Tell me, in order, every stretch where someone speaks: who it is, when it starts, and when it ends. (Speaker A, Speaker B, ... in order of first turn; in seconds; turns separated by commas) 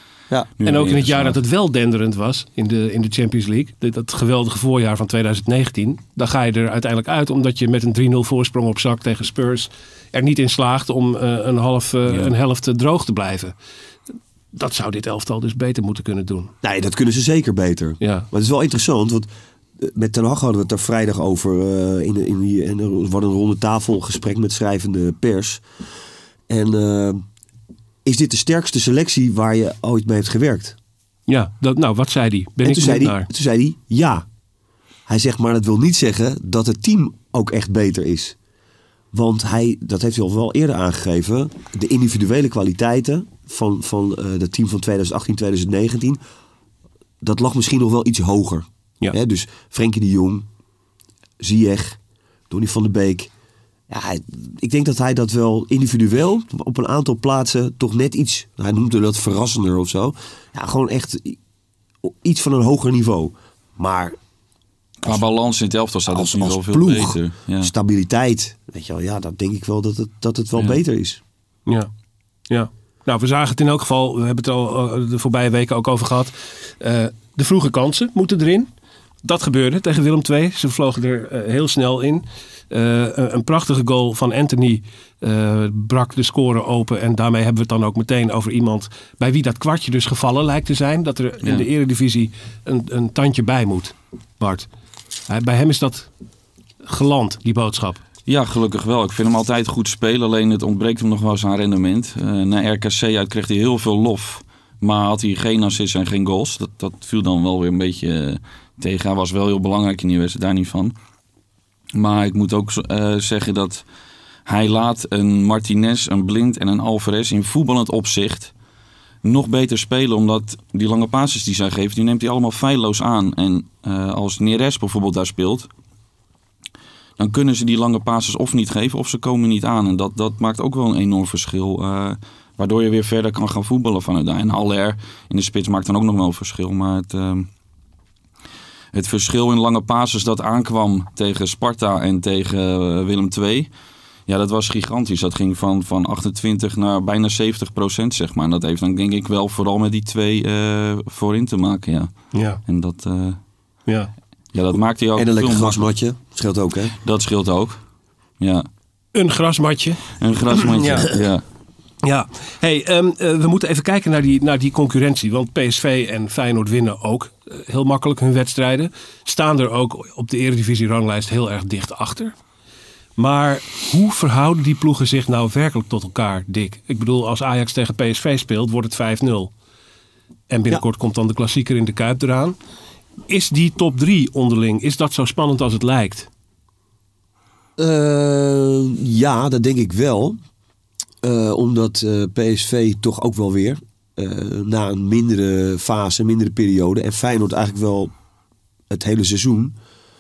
Speaker A: 0.6-1.4, Speaker B: 0.7-13.6, Speaker B: 14.5-16.5, Speaker C: 16.6-25.6, Speaker B: 18.0-18.3, Speaker C: 26.5-27.3, Speaker C: 28.1-30.8, Speaker B: 31.3-33.3, Speaker C: 32.6-34.3, Speaker C: 35.1-38.4, Speaker C: 39.1-46.2, Speaker C: 47.2-50.5, Speaker C: 51.4-52.0, Speaker C: 52.5-53.3, Speaker C: 53.9-61.4, Speaker C: 62.0-64.2, Speaker A: 65.0-67.7, Speaker C: 66.1-71.2, Speaker B: 72.5-78.7, Speaker B: 79.2-94.7, Speaker B: 95.3-96.1, Speaker B: 96.8-98.0, Speaker A: 98.3-110.9, Speaker A: 111.9-113.8, Speaker A: 114.5-118.5, Speaker A: 119.2-125.7, Speaker A: 127.2-137.5, Speaker A: 138.9-143.7, Speaker A: 144.3-153.4, Speaker B: 152.3-152.6, Speaker A: 154.5-155.8, Speaker C: 155.2-156.9, Speaker A: 157.0-157.8, Speaker A: 158.4-158.7, Speaker B: 159.1-160.0, Speaker A: 160.2-161.4, Speaker B: 160.6-161.1, Speaker B: 162.0-172.3, Speaker B: 173.2-179.5, Speaker B: 180.5-182.6, Speaker B: 183.3-186.3, Speaker C: 187.8-190.4, Speaker C: 191.2-198.1, Speaker C: 198.9-199.8